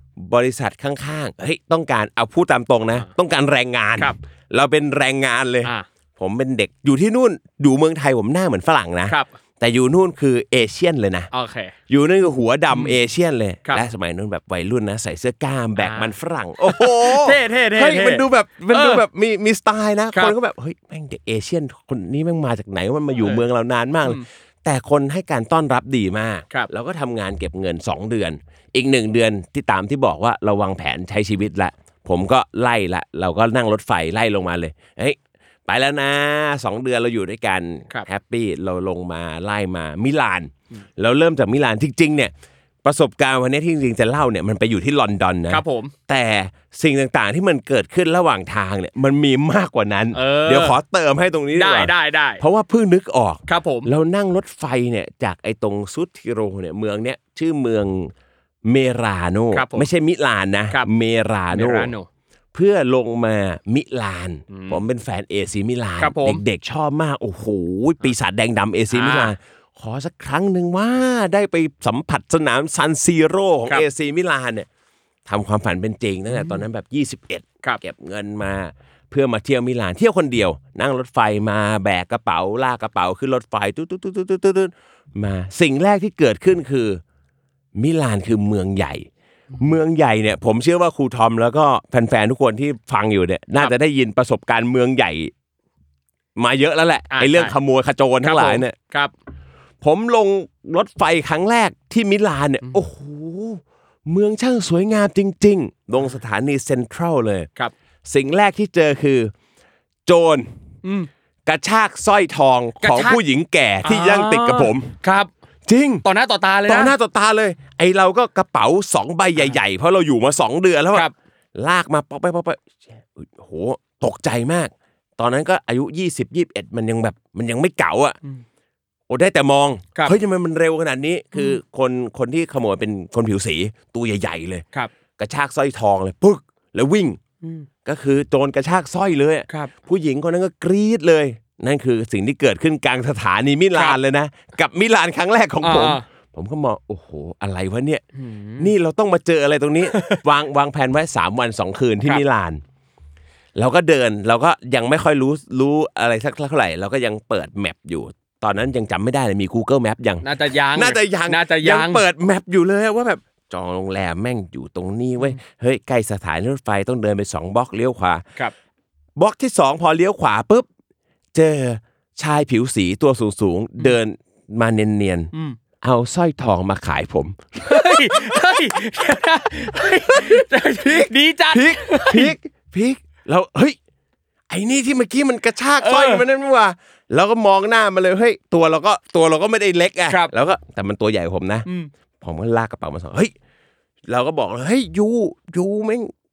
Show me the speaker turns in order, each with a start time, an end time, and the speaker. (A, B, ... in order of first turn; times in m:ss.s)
0:00.2-0:11.3 A
0:11.3-0:11.7 B
0:11.9-0:42.3 A
0:12.7-0:13.0 B
0:15.8-0:19.0 B
0:23.2-0:23.4 B
0:42.8-0:58.1 A
0:45.5-0:45.9 B
0:50.1-0:50.8 B
0:51.6-0:52.4 B
0:53.5-0:53.9 B
0:58.6-1:01.9 A
0:59.5-0:59.9 B
1:01.5-1:02.1 B
1:02.5-1:14.7 A
1:04.5-1:04.8 B
1:06.0-1:06.4 B
1:08.9-1:09.4 B
1:15.3-1:27.0 A
1:16.3-1:16.6 B
1:27.8-1:29.1 A
1:29.6-1:35.3 A
1:36.4-1:38.8 A
1:37.1-1:37.5 B
1:38.2-1:39.1 B
1:39.8-1:47.5 A
1:48.1-1:49.3 A
1:50.1-1:50.5 A
1:50.8-1:51.1 B
1:51.5-1:54.9 A
1:52.8-1:53.2 B
1:53.8-1:55.3 B
1:55.7-1:56.0 A
1:56.0-1:57.0 B
1:56.7-2:08.2 A
2:09.1-2:14.6 A
2:11.3-2:11.6 B
2:15.2-2:17.2 A
2:17.4-2:17.7 B
2:17.8-2:28.0 A
2:25.6-2:26.0 B
2:28.2-2:28.7 B
2:28.6-2:32.6 A
2:29.9-2:30.2 B
2:33.6-2:48.2 A
2:40.2-2:42.0 B
2:49.2-2:50.6 A
2:51.4-2:58.4 A
2:55.3-2:55.6 B
2:57.6-3:02.4 B
3:00.4-3:03.8 A
3:04.5-3:11.7 A
3:05.8-3:06.2 B
3:10.1-3:10.3 B
3:12.2-3:13.3 A
3:14.1-3:16.1 A